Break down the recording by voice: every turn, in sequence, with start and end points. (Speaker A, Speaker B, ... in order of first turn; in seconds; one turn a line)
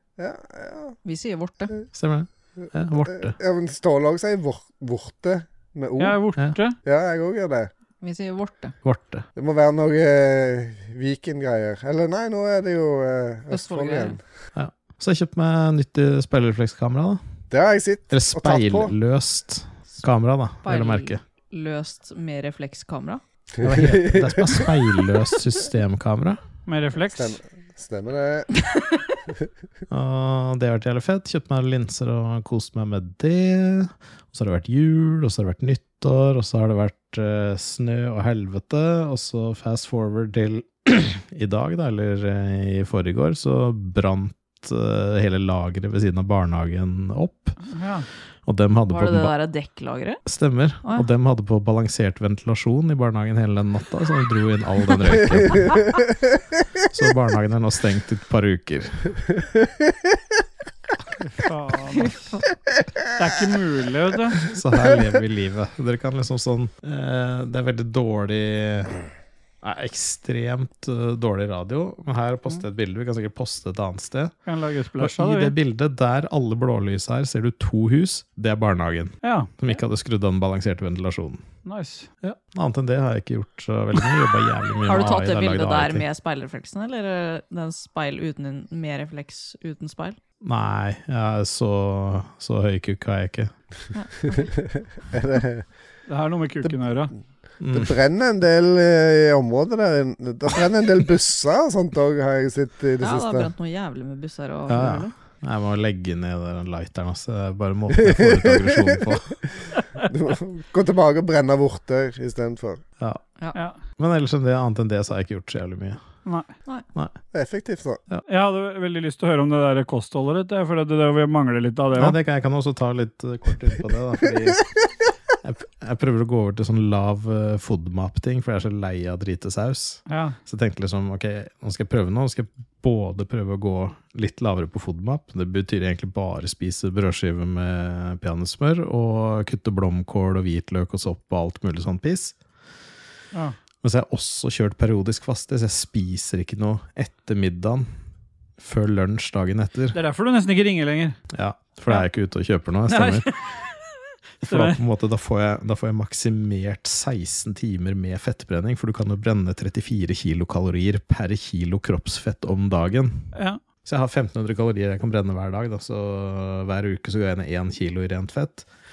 Speaker A: 0.2-0.9
Speaker B: 1.0-1.8
Speaker C: 1.9-3.4
Speaker A: 3.1-6.2
Speaker D: 6.0-6.8
Speaker A: 6.8-7.7
Speaker B: 8.0-8.8
Speaker C: 8.8-9.2
Speaker A: 9.3-14.2
Speaker B: 13.5-14.2
Speaker C: 14.5-17.2
Speaker A: 17.5-18.9
Speaker C: 18.1-21.2
Speaker B: 20.6-23.2
Speaker A: 23.6-24.7
Speaker C: 23.6-26.4
Speaker D: 26.7-27.4
Speaker A: 27.1-28.5
Speaker C: 29.9-47.6
Speaker D: 47.7-48.1
Speaker C: 48.5-49.3
Speaker B: 48.9-50.2
Speaker C: 50.2-55.8
Speaker C: 56.9-59.1
Speaker D: 61.2-62.3
Speaker B: 62.0-62.5
Speaker D: 63.1-64.5
Speaker C: 64.5-69.0
Speaker C: 69.6-74.3
Speaker D: 74.5-75.5
Speaker C: 75.0-81.4
Speaker D: 79.2-79.5
Speaker D: 81.6-82.1
Speaker C: 82.2-86.0
Speaker B: 84.9-90.2
Speaker C: 90.4-93.5
Speaker B: 93.9-94.5
Speaker A: 94.3-95.7
Speaker D: 96.1-97.1
Speaker C: 97.6-97.9
Speaker A: 97.7-103.5
Speaker B: 103.0-105.1
Speaker C: 104.7-109.4
Speaker A: 108.0-109.0
Speaker A: 110.0-112.8
Speaker C: 114.0-116.0
Speaker A: 117.3-118.0
Speaker D: 118.3-122.2
Speaker C: 122.0-124.6
Speaker C: 125.4-142.3
Speaker D: 130.1-130.4
Speaker C: 143.8-147.9
Speaker C: 148.6-150.0
Speaker D: 149.9-151.2
Speaker C: 151.3-153.3
Speaker D: 152.9-153.4
Speaker D: 154.4-154.8
Speaker C: 154.4-163.3
Speaker D: 163.3-163.6
Speaker C: 163.8-168.7